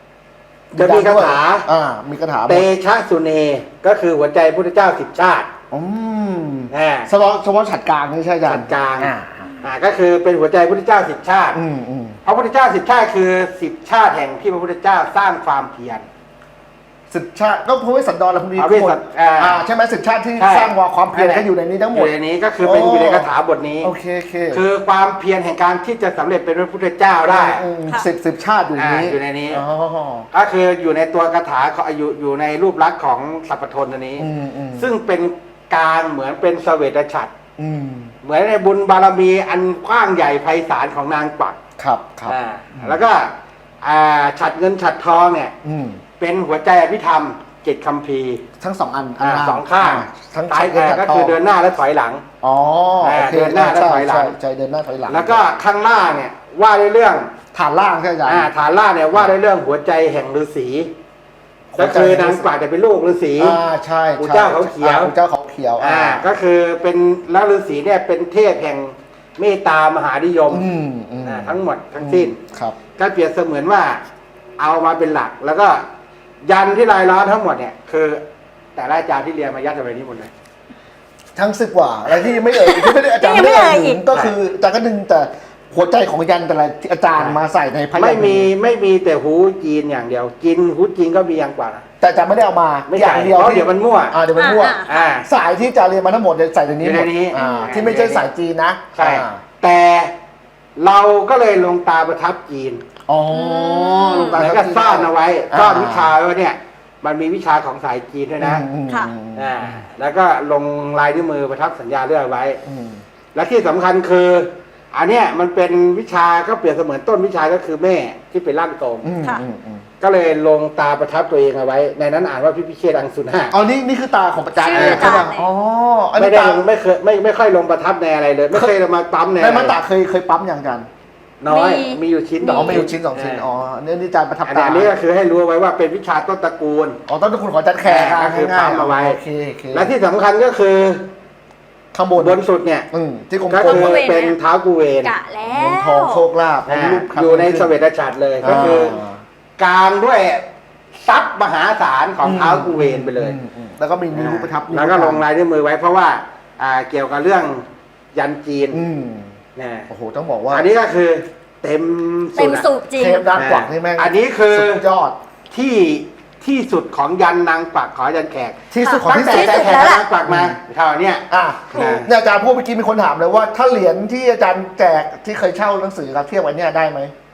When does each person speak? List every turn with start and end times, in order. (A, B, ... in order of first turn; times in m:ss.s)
0:00.7-0:01.7 A
0:00.7-0:02.7 B
0:02.5-0:05.5 A
0:05.7-0:09.5 B
0:06.7-0:07.1 A
0:08.4-0:09.1 A
0:09.6-0:11.6 A
0:11.5-0:12.2 B
0:12.2-0:16.1 A
0:17.1-0:23.3 B
0:18.6-0:19.6 A
0:20.4-0:23.9 A
0:23.8-0:24.6 B
0:24.5-0:27.6 A
0:27.3-0:30.3 B
0:28.8-0:29.6 A
0:30.3-0:37.3 A
0:34.2-0:34.9 B
0:37.6-0:38.1 B
0:38.2-0:41.6 A
0:41.8-0:43.0 B
0:42.2-0:45.5 A
0:45.6-0:46.0 B
0:46.2-0:48.4 A
0:48.6-0:51.4 B
0:49.2-0:52.2 A
0:52.4-0:55.4 B
0:53.0-0:54.4 A
0:55.1-0:57.3 A
0:57.5-0:58.5 B
0:58.2-1:00.9 A
1:01.7-1:02.5 B
1:01.8-1:03.6 A
1:03.4-1:06.2 B
1:04.2-1:05.1 A
1:05.8-1:10.6 A
1:10.5-1:12.8 B
1:11.2-1:12.4 A
1:13.0-1:14.0 A
1:14.6-1:15.8 A
1:16.4-1:18.2 A
1:18.8-1:20.3 A
1:21.4-1:28.5 B
1:22.3-1:24.0 C
1:28.0-1:31.8 A
1:32.0-1:39.4 B
1:32.9-1:34.2 A
1:34.4-1:35.1 C
1:34.9-1:35.3 A
1:36.8-1:38.3 A
1:37.3-1:37.8 C
1:39.0-1:40.1 A
1:40.8-1:42.8 A
1:43.1-1:46.2 B
1:43.3-1:44.4 C
1:44.3-1:48.6 A
1:48.4-1:49.8 B
1:48.9-1:49.1 C
1:49.4-1:52.6 A
1:52.7-1:53.0 B
1:53.4-1:59.1 A
1:59.0-1:59.9 B
2:00.0-2:03.5 A
2:03.5-2:06.6 B
2:04.6-2:05.5 C
2:04.7-2:05.3 A
2:06.2-2:09.8 A
2:09.4-2:10.9 B
2:11.4-2:13.5 A
2:11.5-2:12.9 C
2:12.4-2:14.9 B
2:14.5-2:17.0 A
2:17.1-2:19.9 B
2:17.8-2:19.2 A
2:19.7-2:21.1 A
2:21.9-2:22.4 B
2:22.2-2:22.9 A
2:22.9-2:24.0 B
2:23.5-2:25.1 A
2:23.6-2:24.4 C
2:25.0-2:26.2 C
2:25.5-2:27.7 B
2:26.7-2:29.0 A
2:28.4-2:29.2 B
2:29.6-2:33.4 A
2:32.2-2:35.2 B
2:34.1-2:38.8 A
2:38.7-2:39.4 B
2:39.6-2:39.9 A
2:39.9-2:40.7 B
2:40.5-2:42.7 A
2:42.4-2:43.3 C
2:43.0-2:45.2 B
2:43.4-2:44.8 A
2:45.5-2:52.1 A
2:48.7-2:50.6 B
2:48.8-2:50.0 C
2:51.3-2:57.1 B
2:51.7-2:52.0 C